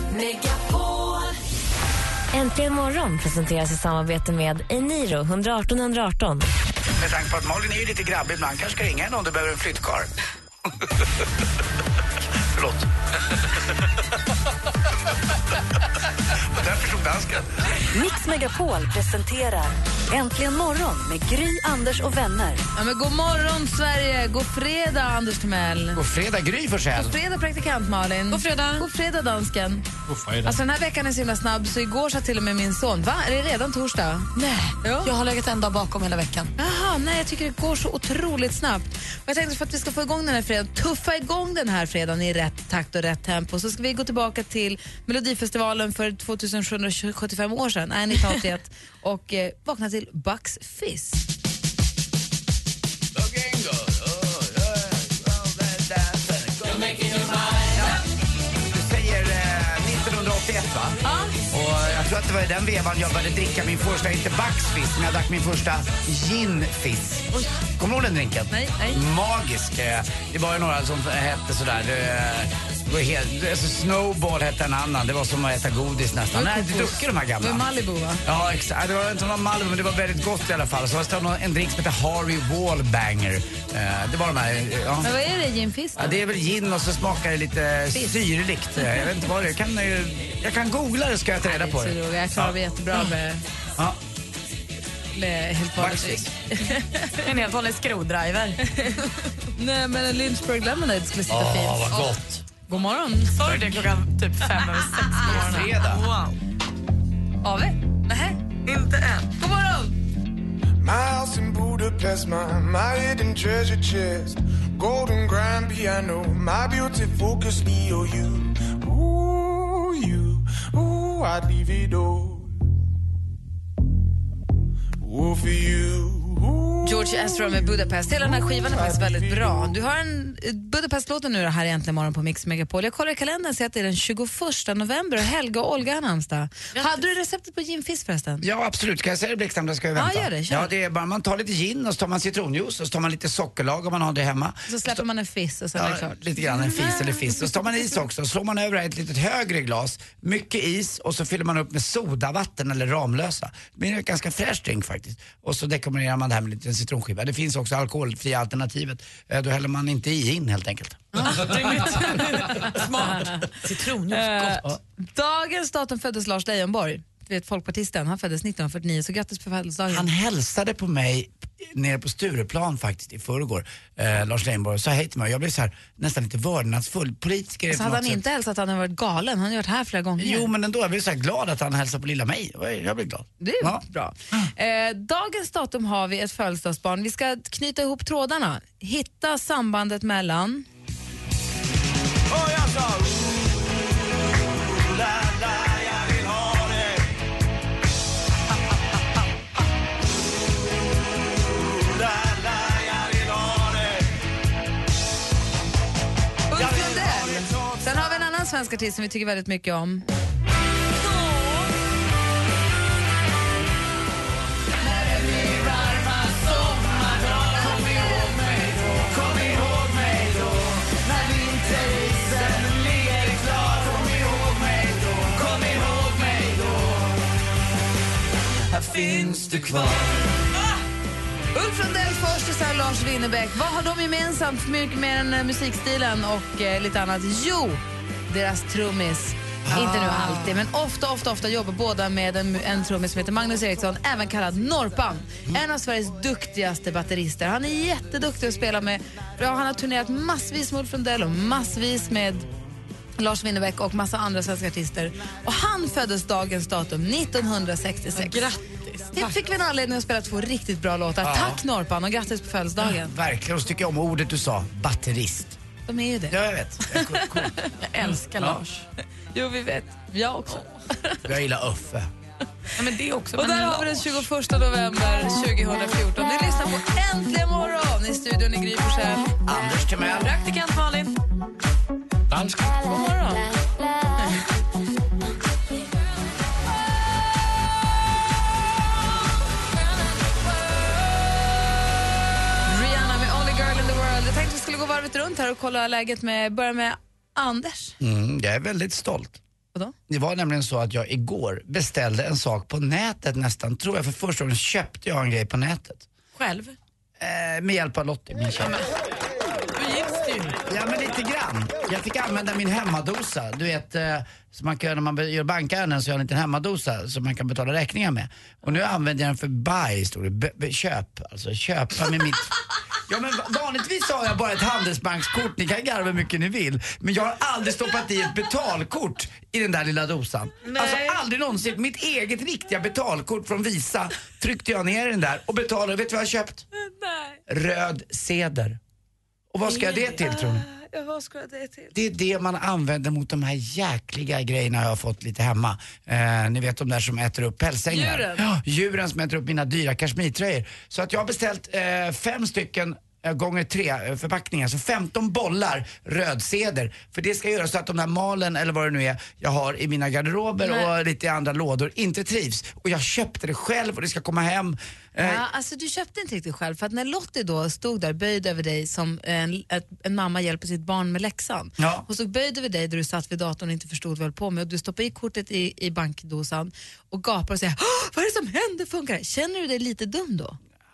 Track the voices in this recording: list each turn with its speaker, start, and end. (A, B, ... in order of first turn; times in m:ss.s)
0:02.3-0:06.4 A
0:07.0-0:10.1 B
0:12.5-0:12.9 B
0:16.4-0:17.5 B
0:17.9-0:22.6 C
0:22.8-0:26.0 D
0:25.9-0:27.2 B
0:27.0-0:29.9 D
0:28.3-0:28.9 E
0:30.1-0:30.6 F
0:30.4-0:34.3 D
0:34.4-0:36.5 E
0:34.8-0:35.1 D
0:36.6-0:51.3 D
0:53.2-0:58.0 B
0:58.7-1:01.0 B
1:01.0-1:01.4 D
1:01.5-1:17.6 B
1:08.5-1:09.0 D
1:16.3-1:18.2 D
1:18.2-1:25.1 B
1:25.0-1:26.2 D
1:26.0-1:32.5 B
1:31.4-1:33.4 D
1:35.1-1:37.2 D
1:35.8-1:36.3 B
1:37.2-1:39.1 E
1:39.6-1:42.1 D
1:41.3-1:42.4 B
1:42.7-1:43.5 D
1:43.4-1:46.4 E
1:43.5-1:43.8 B
1:44.4-1:45.5 D
1:45.2-1:46.1 B
1:47.4-1:48.4 D
1:48.7-1:49.3 E
1:49.4-1:49.9 D
1:50.8-2:02.5 G
2:05.0-2:09.8 G
2:06.8-2:18.4 D
2:16.7-2:17.0 E
2:18.4-2:25.0 B
2:20.0-2:20.7 D
2:24.7-2:26.4 D
2:25.8-2:41.4 B
2:41.2-2:43.5 D
2:41.2-2:44.7 E
2:44.1-2:50.1 D
2:49.9-2:58.2 B
2:57.7-3:00.5 D
3:00.2-3:04.4 B
3:03.4-3:10.7 D
3:12.5-3:13.0 F
3:15.1-3:16.8 F
3:22.0-3:24.0 F
3:26.5-3:30.0 D
3:26.8-3:27.4 F
3:35.0-3:47.0 F
3:48.7-3:50.1 B
3:48.9-3:49.8 F
3:51.5-4:12.5 D
3:59.6-4:00.3 B
4:13.2-4:18.4 D
4:18.1-4:19.3 E
4:19.1-4:23.1 D
4:21.2-4:21.6 B
4:22.9-4:25.6 B
4:25.9-4:27.5 D
4:26.3-4:27.6 B
4:27.7-4:28.9 E
4:29.3-4:31.2 D
4:31.2-4:32.1 B
4:32.8-4:34.3 E
4:33.4-4:39.3 D
4:39.4-4:40.3 B
4:40.2-4:41.2 E
4:42.3-4:42.7 F
4:42.8-4:43.5 D
4:52.7-4:58.0 D
4:58.0-4:59.4 B
5:00.1-5:06.1 B
5:06.4-5:06.8 E
5:07.2-5:08.9 B
5:09.8-5:10.6 E
5:10.7-5:22.5 B
5:23.1-5:36.6 B
5:30.7-5:31.2 E
5:36.8-5:37.4 D
5:37.5-5:38.8 B
5:39.5-5:40.7 B
5:39.6-5:41.9 D
5:41.9-6:05.4 B
5:47.9-5:48.4 D
6:00.6-6:00.9 D
6:05.2-6:20.6 D
6:11.8-6:12.0 B